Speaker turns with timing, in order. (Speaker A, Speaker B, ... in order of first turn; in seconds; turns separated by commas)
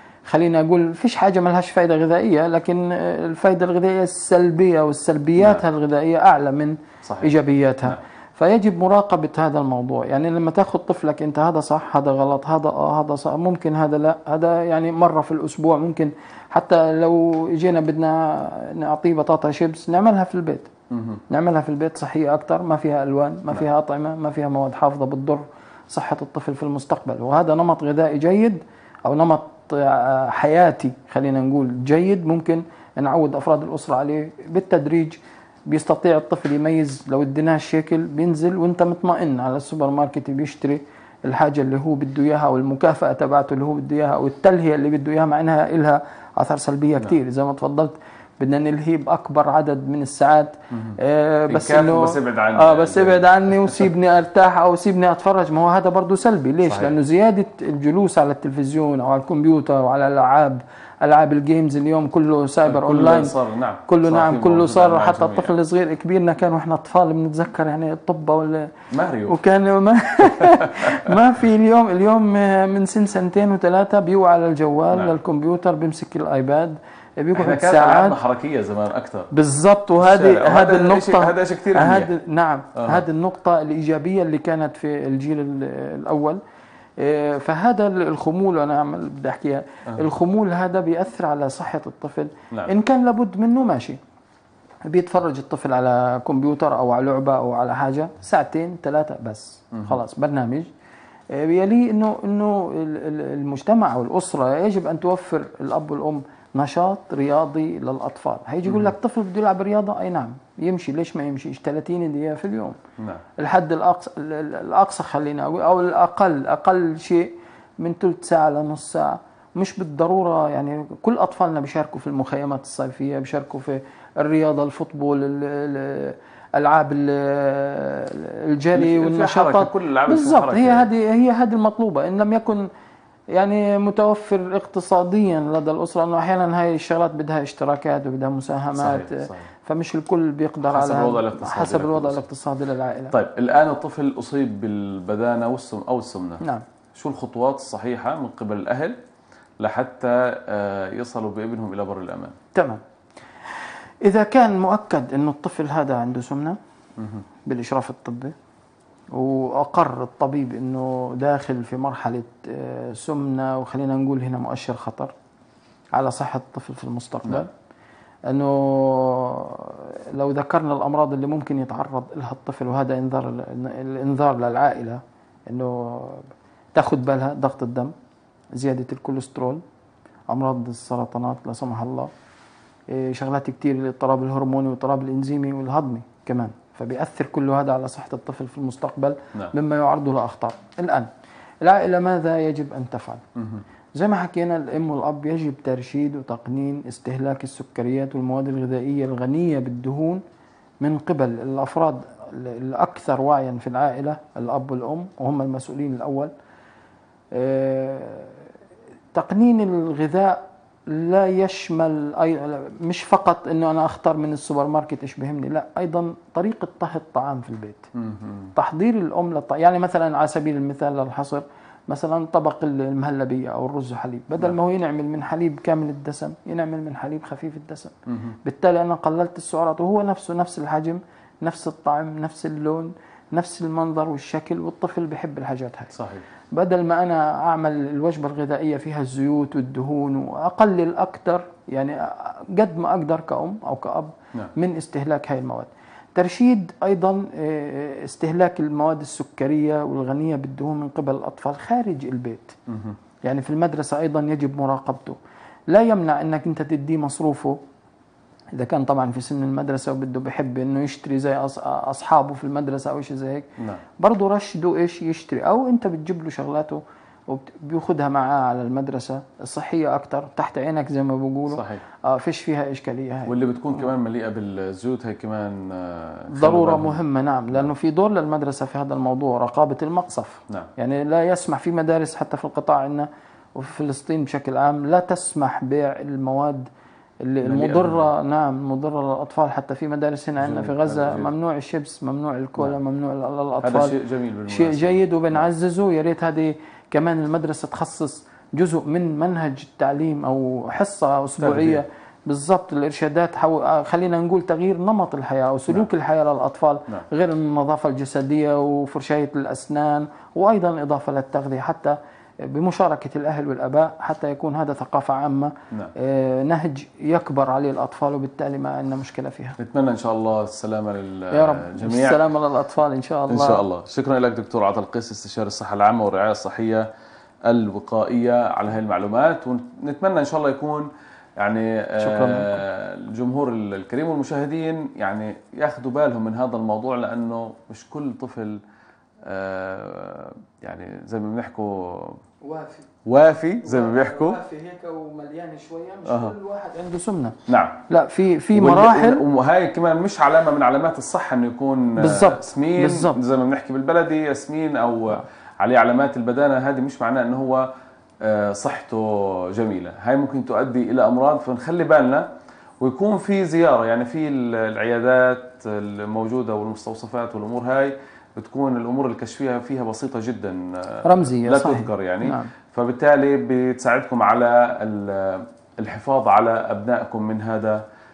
Speaker A: 0.2-20.7, Speaker B: 5.4-5.6, Speaker B: 7.0-7.3, Speaker B: 20.9-21.2, Speaker A: 21.3-78.2, Speaker B: 51.5-53.8, Speaker B: 56.6-57.0, Speaker B: 62.7-65.5, Speaker B: 68.9-69.4, Speaker B: 70.2-71.2, Speaker B: 77.3-79.3, Speaker A: 79.3-86.4, Speaker B: 80.0-82.1, Speaker B: 82.8-83.0, Speaker A: 87.0-94.0, Speaker A: 94.9-100.7, Speaker A: 101.3-112.8, Speaker B: 108.7-108.9, Speaker B: 113.0-113.2, Speaker A: 113.4-132.7, Speaker B: 128.8-130.9, Speaker A: 133.3-143.1, Speaker B: 138.8-139.5, Speaker B: 140.7-142.2, Speaker B: 143.1-146.4, Speaker B: 146.9-149.0, Speaker B: 149.6-152.3, Speaker A: 152.5-152.8, Speaker A: 154.0-156.6, Speaker B: 157.0-157.2, Speaker A: 157.5-158.3, Speaker A: 159.1-165.1, Speaker A: 165.9-167.5, Speaker A: 168.3-177.9, Speaker A: 178.6-179.6, Speaker A: 180.3-182.1, Speaker A: 182.9-191.1, Speaker A: 191.6-193.2, Speaker B: 193.4-193.6, Speaker A: 193.9-200.2, Speaker A: 200.8-206.3, Speaker A: 207.3-208.4, Speaker A: 209.1-217.9, Speaker B: 218.0-218.5, Speaker A: 218.5-236.0, Speaker B: 228.1-228.3, Speaker B: 235.9-236.2, Speaker A: 236.5-252.6, Speaker B: 252.7-253.0, Speaker A: 253.2-255.2, Speaker A: 255.7-257.6, Speaker A: 258.6-263.5, Speaker A: 264.0-273.4, Speaker B: 271.5-271.8, Speaker B: 273.3-277.0, Speaker A: 276.3-286.7, Speaker A: 287.2-293.9, Speaker B: 287.4-288.1, Speaker B: 290.4-291.3, Speaker B: 293.6-295.4, Speaker A: 294.5-319.6, Speaker B: 301.4-301.8, Speaker B: 319.6-322.2, Speaker A: 321.3-323.6, Speaker B: 323.3-326.9, Speaker B: 327.5-338.6, Speaker A: 332.0-332.6, Speaker B: 339.2-342.2, Speaker A: 342.4-342.9, Speaker B: 343.1-344.4, Speaker A: 343.6-347.4, Speaker B: 346.1-346.4, Speaker B: 347.5-347.8, Speaker A: 347.9-349.2, Speaker B: 348.5-357.7, Speaker A: 352.0-353.2, Speaker B: 358.2-362.3, Speaker B: 362.8-377.8, Speaker A: 371.0-372.5